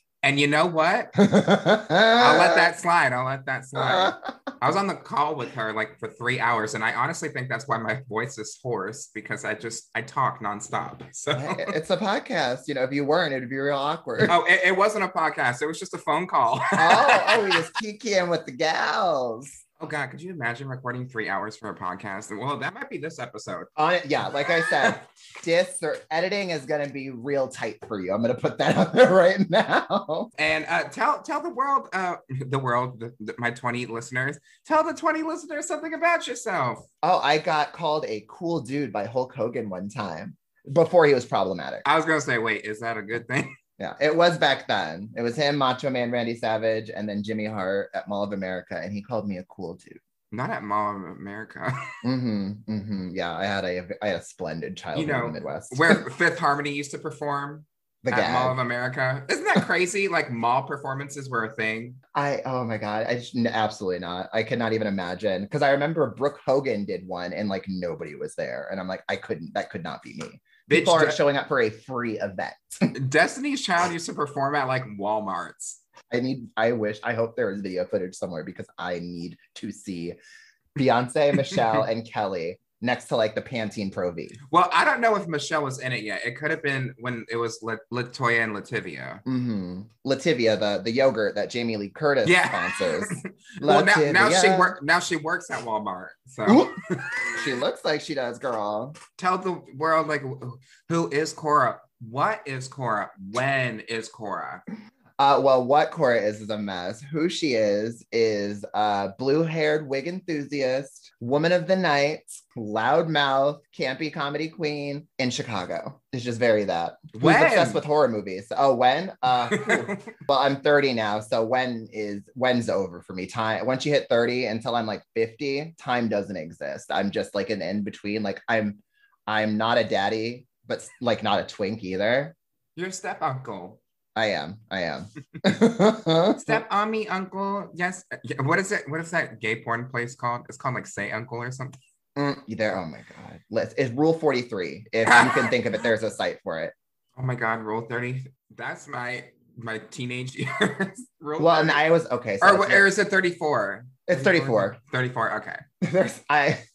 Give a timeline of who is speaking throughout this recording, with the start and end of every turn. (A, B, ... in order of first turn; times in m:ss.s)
0:00.2-0:01.1 A
0:01.2-0:02.7 B
0:02.1-0:11.7 A
0:03.8-0:04.3 B
0:11.3-0:14.3 B
0:14.2-0:17.6 A
0:16.8-0:19.6 B
0:19.8-0:23.7 A
0:23.8-0:30.3 B
0:30.4-0:36.9 A
0:37.0-0:41.8 B
0:41.8-0:43.5 A
0:43.8-0:50.0 B
0:50.3-0:51.9 A
0:52.0-0:56.0 B
0:54.9-1:02.0 A
0:58.0-0:58.6 B
1:02.1-1:12.9 B
1:10.7-1:11.2 A
1:12.9-1:15.8 A
1:16.1-1:20.2 B
1:20.8-1:24.4 B
1:24.5-1:29.2 A
1:29.2-1:34.8 B
1:32.2-1:37.4 A
1:36.4-1:36.7 B
1:37.2-1:39.0 B
1:39.2-1:44.6 A
1:45.2-2:12.3 B
1:57.1-1:57.8 A
1:59.5-2:00.1 A
2:12.8-2:13.8 A
2:14.2-2:16.6 B
2:16.4-2:21.8 A
2:22.2-2:26.7 B
2:25.0-2:25.5 A
2:27.2-2:31.8 A
2:31.4-2:32.9 B
2:32.4-2:35.6 A
2:34.1-2:34.8 B
2:35.8-2:36.6 B